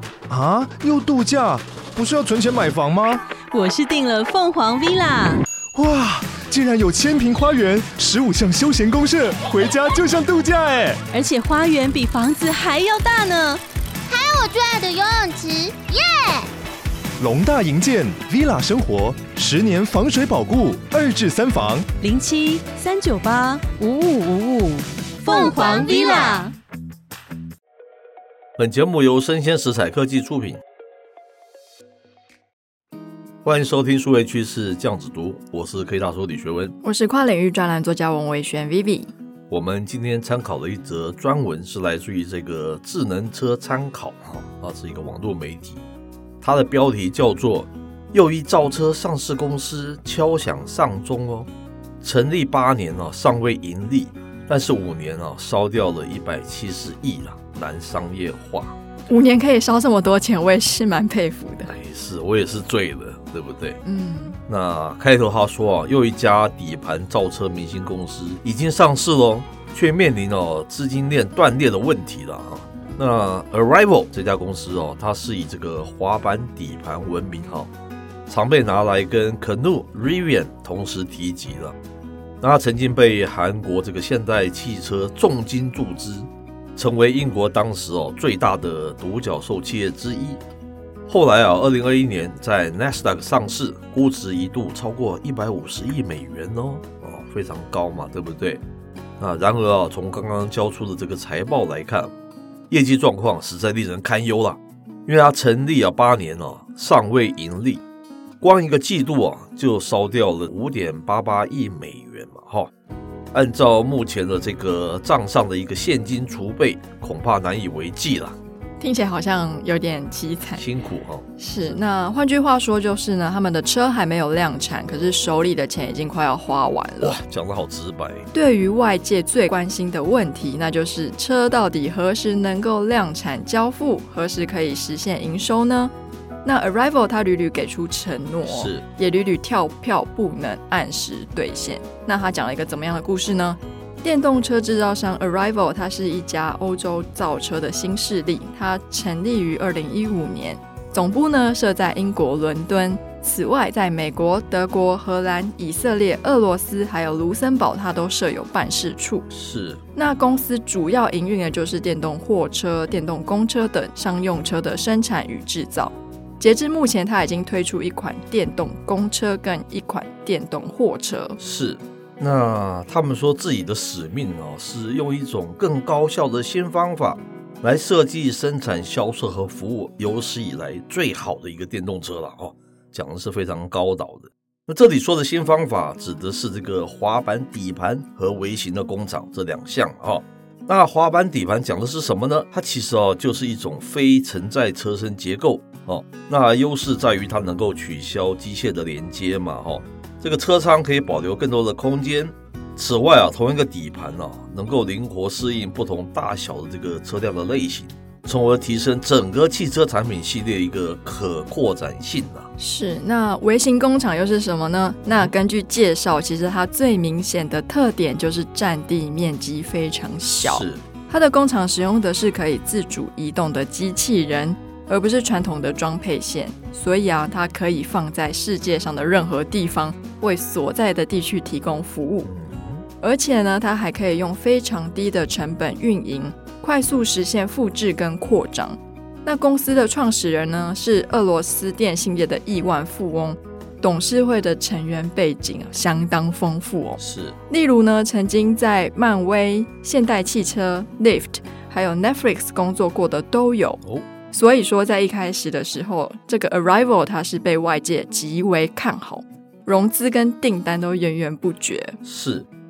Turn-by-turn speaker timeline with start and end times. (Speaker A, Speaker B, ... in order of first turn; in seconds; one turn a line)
Speaker A: 0.3-3.2
Speaker B: 3.5-5.4
Speaker A: 5.7-11.0
Speaker B: 11.1-13.6
Speaker C: 14.1-16.5
Speaker A: 17.2-21.9
Speaker B: 22.0-26.5
Speaker C: 25.3-26.5
Speaker D: 28.6-30.6
Speaker D: 33.4-36.7
Speaker E: 36.8-39.1
Speaker D: 39.5-45.8
Speaker D: 46.4-51.5
Speaker D: 52.0-58.8
Speaker E: 59.1-61.7
Speaker D: 61.7-63.8
Speaker E: 63.8-64.4
Speaker D: 64.5-77.7
Speaker D: 78.3-81.8
Speaker D: 82.4-90.4
Speaker D: 91.1-98.6
Speaker D: 99.2-102.1
Speaker D: 102.7-107.8
Speaker D: 108.4-112.7
Speaker D: 113.3-118.4
Speaker E: 118.8-120.6
Speaker D: 120.5-121.8
Speaker E: 121.4-127.2
Speaker D: 127.0-128.2
Speaker E: 128.3-135.9
Speaker E: 136.4-159.3
Speaker D: 138.4-138.8
Speaker D: 159.3-159.8
Speaker E: 159.9-171.4
Speaker D: 171.4-212.5
Speaker E: 212.6-232.3
Speaker D: 220.4-220.8
Speaker D: 232.2-232.8
Speaker E: 233.0-262.0
Speaker D: 247.0-247.4
Speaker D: 262.0-262.4